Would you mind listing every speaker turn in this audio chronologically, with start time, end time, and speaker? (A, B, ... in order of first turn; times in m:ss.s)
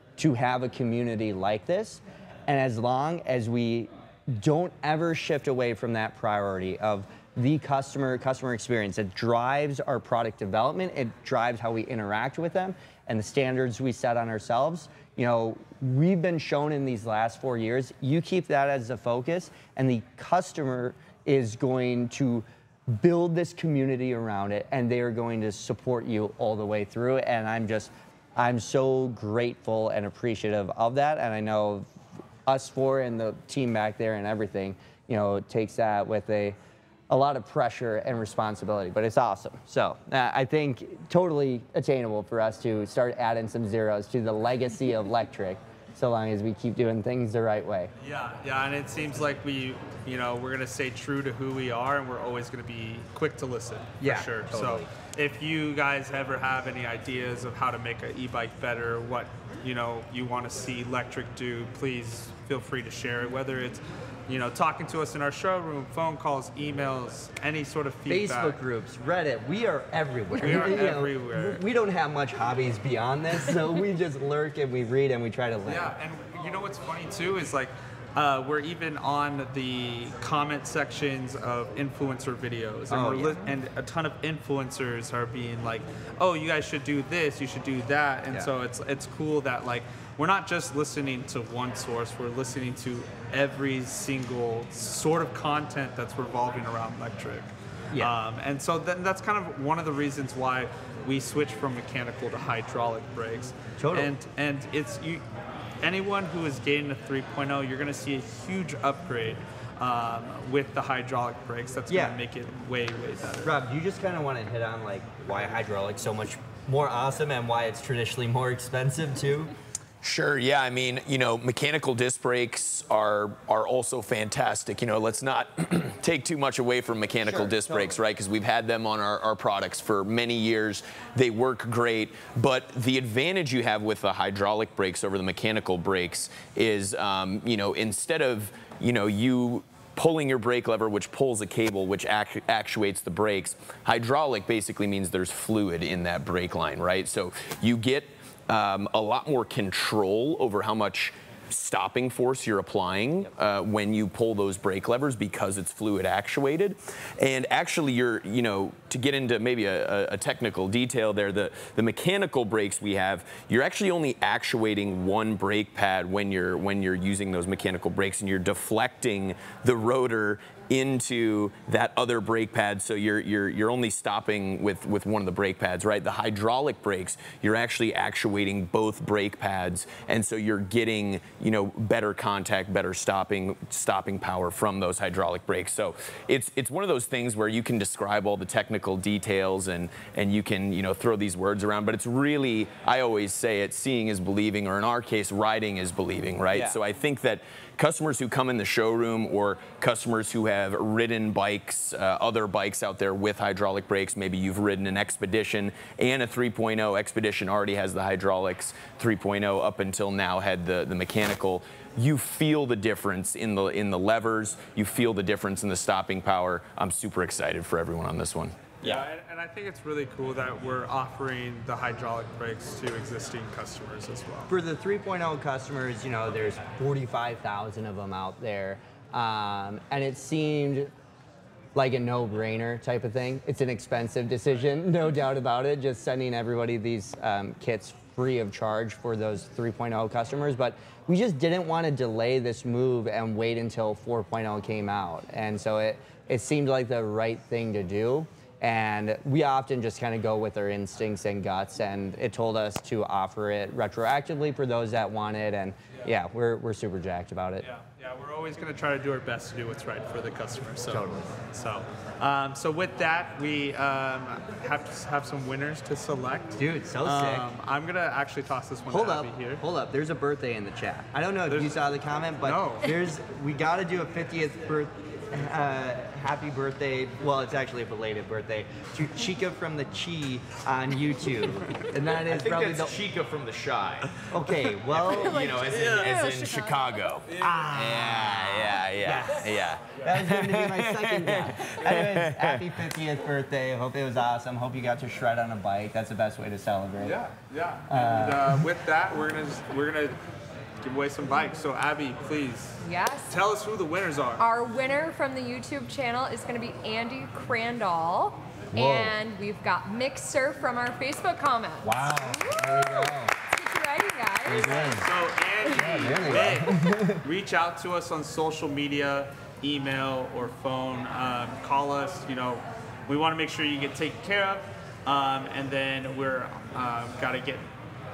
0:00.2-0:31.9 A
0:32.5-0:36.6 A
0:37.1-0:47.9 A
0:48.0-1:08.6 B
0:54.0-0:54.9 A
1:08.1-1:15.9 A
1:10.4-1:11.6 B
1:15.7-1:45.2 B
1:22.9-1:23.5 A
1:43.8-1:44.1 A
1:45.8-1:53.5 B
1:51.9-1:52.2 A
1:53.4-1:59.5 A
2:00.0-3:38.8 C
2:07.3-2:08.0 A
3:38.8-3:44.5 B
3:44.5-3:50.9 A
3:51.8-4:17.7 A
4:17.6-4:29.6 B
4:20.9-4:21.4 A
4:26.6-4:27.5 A
4:28.9-4:43.0 A
4:31.5-4:31.8 B
4:32.4-4:32.9 B
4:42.0-4:52.8 C
4:44.3-4:45.7 A
4:45.0-4:47.2 D
4:47.3-4:47.7 B
4:47.4-4:57.2 A
4:57.0-5:00.2 B
4:57.9-4:58.6 A
5:00.8-5:04.4 B
5:02.8-5:03.4 D
5:04.4-5:15.1 D
5:08.7-5:09.1 A
5:11.8-5:13.3 A
5:14.4-5:15.1 A
5:14.8-5:27.7 B
5:15.6-5:16.8 D
5:15.7-5:17.2 A